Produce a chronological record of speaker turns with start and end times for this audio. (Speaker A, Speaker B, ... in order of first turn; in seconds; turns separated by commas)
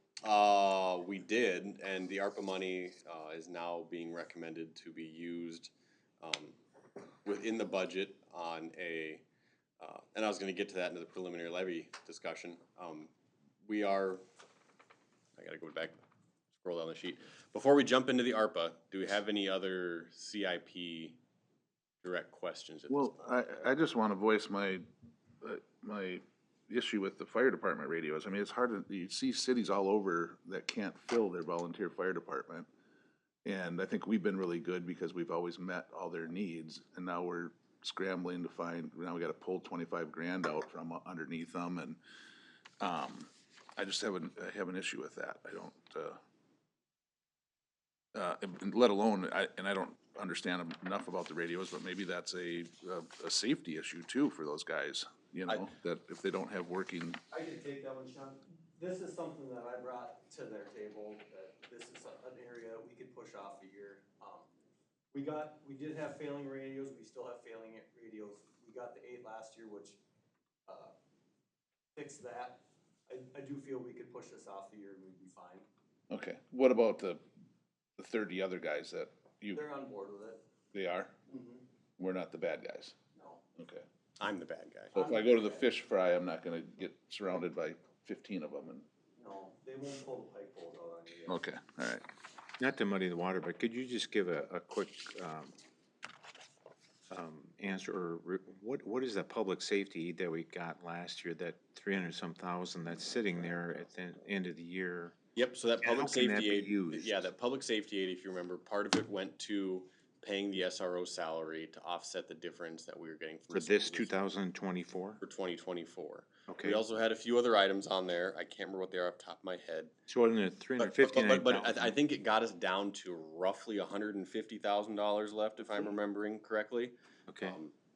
Speaker A: 0.2-6.6, Speaker A: 7.2-9.2, Speaker A: 9.8-13.1, Speaker A: 13.7-14.2, Speaker A: 15.4-16.0, Speaker A: 16.6-21.2, Speaker A: 22.0-23.4, Speaker B: 22.9-24.9, Speaker B: 25.4-32.7, Speaker B: 33.5-42.0, Speaker B: 42.8-46.2, Speaker B: 48.1-57.2, Speaker C: 57.3-64.5, Speaker C: 65.1-70.0, Speaker C: 70.7-70.9, Speaker C: 72.0-75.7, Speaker B: 76.1-77.2, Speaker B: 78.0-79.6, Speaker C: 79.5-80.4, Speaker B: 80.7-81.1, Speaker C: 81.3-81.6, Speaker B: 82.0-83.0, Speaker C: 83.2-83.4, Speaker B: 83.6-83.8, Speaker A: 84.2-85.0, Speaker B: 84.9-88.8, Speaker C: 85.0-85.6, Speaker C: 89.2-91.4, Speaker B: 91.3-92.0, Speaker D: 92.6-95.5, Speaker D: 97.1-105.2, Speaker A: 105.3-114.2, Speaker D: 105.8-107.3, Speaker D: 113.5-115.2, Speaker A: 115.2-119.9, Speaker D: 116.5-116.8, Speaker D: 120.1-122.0, Speaker A: 120.8-127.7, Speaker D: 127.3-127.6